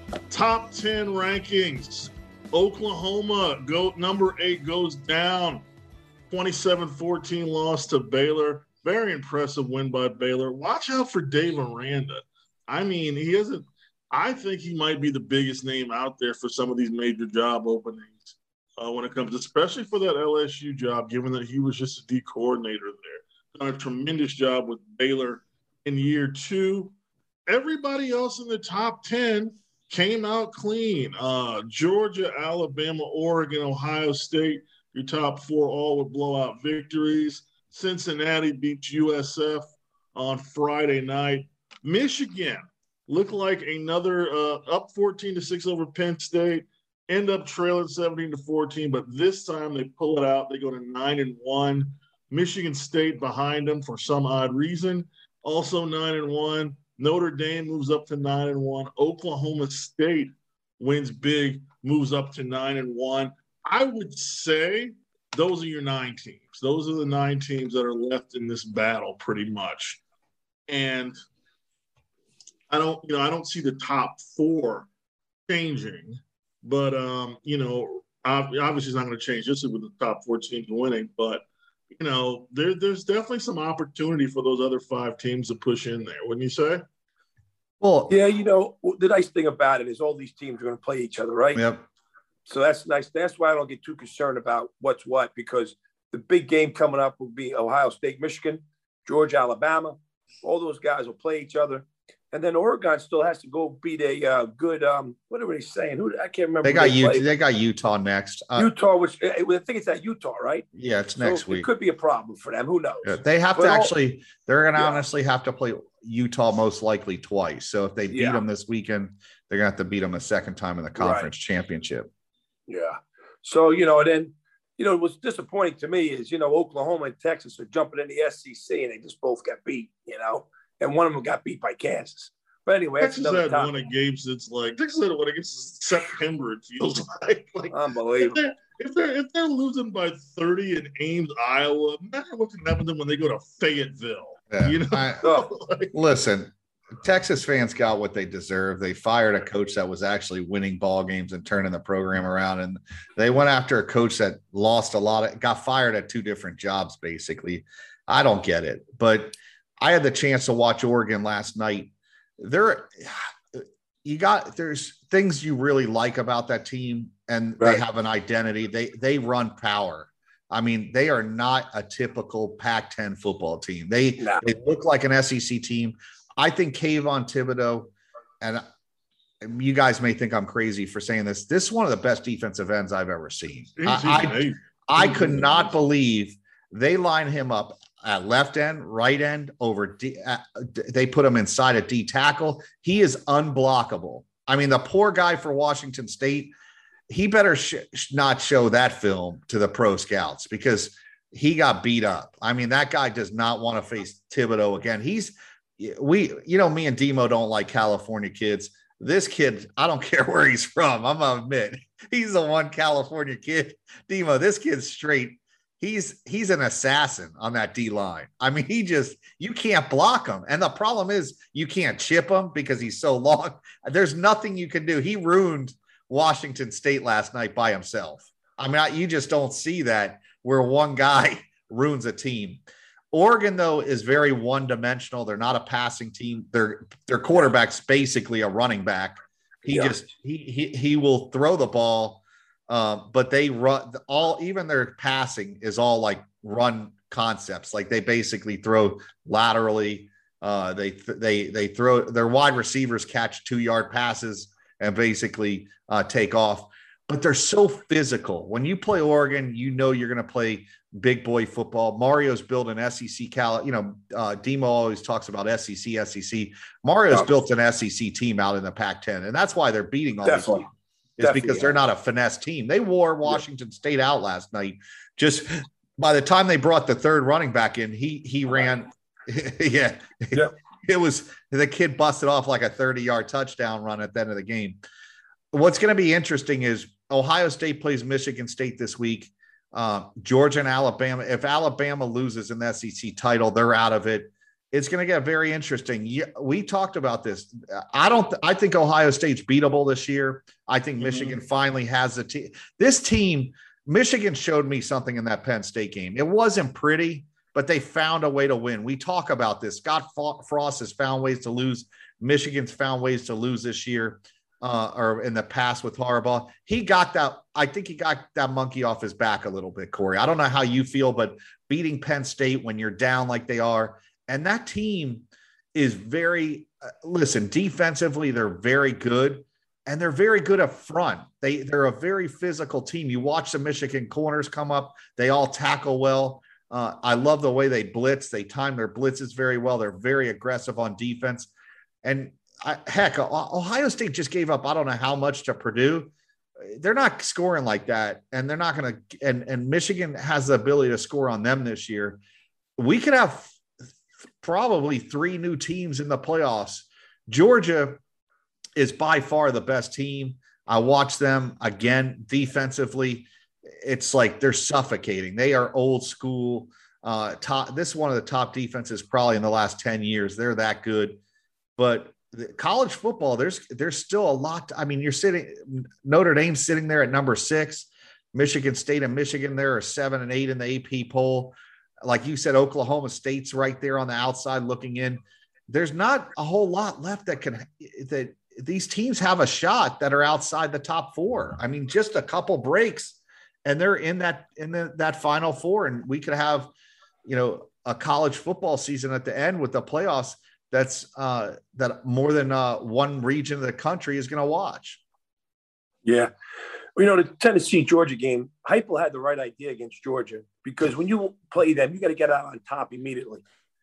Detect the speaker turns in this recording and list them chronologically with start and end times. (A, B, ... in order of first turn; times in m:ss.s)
0:00.3-0:05.6 A
0:06.3-0:26.9 A
0:27.5-1:10.0 A
1:10.7-1:11.2 A
1:12.7-1:14.9 A
1:15.5-1:26.8 A
1:27.8-1:28.2 B
1:28.1-1:31.6 C
1:31.6-1:31.8 B
1:32.5-1:47.3 C
1:46.6-1:48.7 B
1:48.6-1:53.9 C
1:50.8-1:51.7 B
1:53.0-2:02.1 B
1:54.8-1:55.0 C
1:58.1-1:58.4 C
2:01.0-2:01.3 C
2:02.7-2:13.8 C
2:13.0-2:26.0 A
2:17.7-2:18.4 C
2:24.5-2:25.2 B
2:25.2-2:25.5 C
2:25.9-2:58.6 B
2:54.2-2:54.5 C
2:59.4-3:16.5 B
3:03.8-3:05.7 A
3:17.1-4:44.8 B
3:59.7-4:00.0 C
4:30.2-4:30.7 C
4:31.2-4:31.8 C
4:45.5-5:41.5 B
5:01.0-5:01.4 A
5:42.0-5:46.1 B
5:46.6-5:52.2 B
5:52.8-5:53.6 B
5:54.4-5:58.0 B
5:58.8-6:03.3 B
6:03.8-6:11.2 B
6:11.8-6:36.7 B
6:37.3-6:45.0 B
6:46.0-6:46.3 C
6:47.0-6:53.4 C